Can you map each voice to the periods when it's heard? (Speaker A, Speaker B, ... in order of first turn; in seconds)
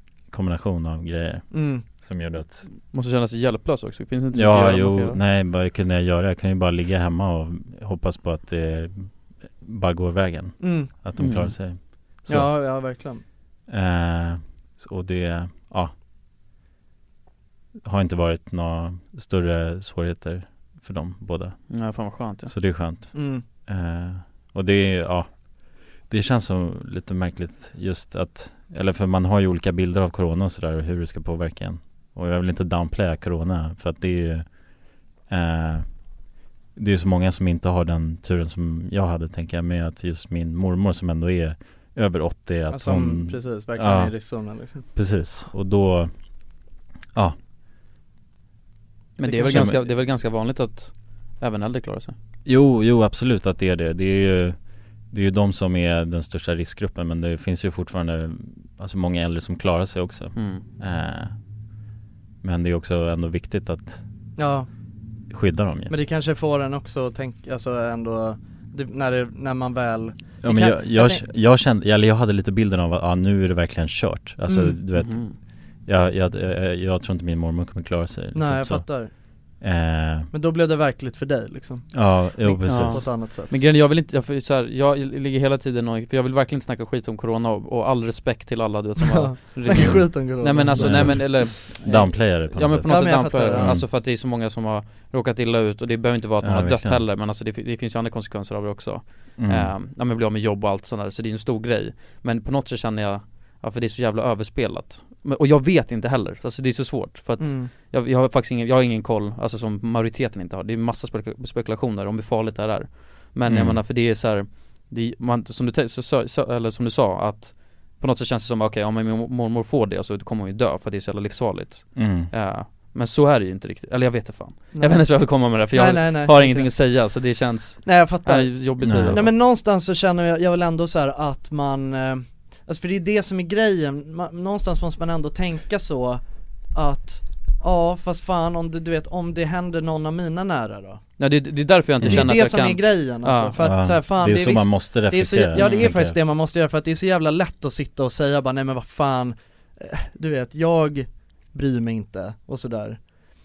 Speaker A: 0.3-2.7, 4.3-12.5, 13.7-15.9, 17.8-21.8, 22.4-25.3, 26.0-34.5, 35.3-35.9, 36.7-44.1, 44.9-46.1, 49.4-49.7, 52.5-61.3, 62.4-64.0, 65.3-65.9, 70.4-75.2, 75.8-78.8, 79.6-80.3, 81.9-83.1, 89.8-90.1, 90.7-93.8, 96.4-97.0, 99.4-99.7, 113.5-113.8, 121.9-122.3, 128.8-129.2, 143.6-146.2
Speaker B: 1.5-1.8, 10.6-10.9, 12.3-13.2, 23.1-23.4, 42.7-44.8, 49.2-49.8, 64.4-64.7, 65.9-71.2, 74.5-74.8, 78.3-79.1, 80.3-83.5, 89.0-91.4, 92.8-93.8, 107.4-107.7, 124.8-126.7, 127.8-136.2, 136.7-141.0, 142.0-153.0
Speaker C: 2.7-5.2, 11.2-11.6, 21.7-22.5, 49.2-52.1, 60.3-60.6, 74.9-75.3, 82.7-129.3, 141.2-143.5, 145.6-145.9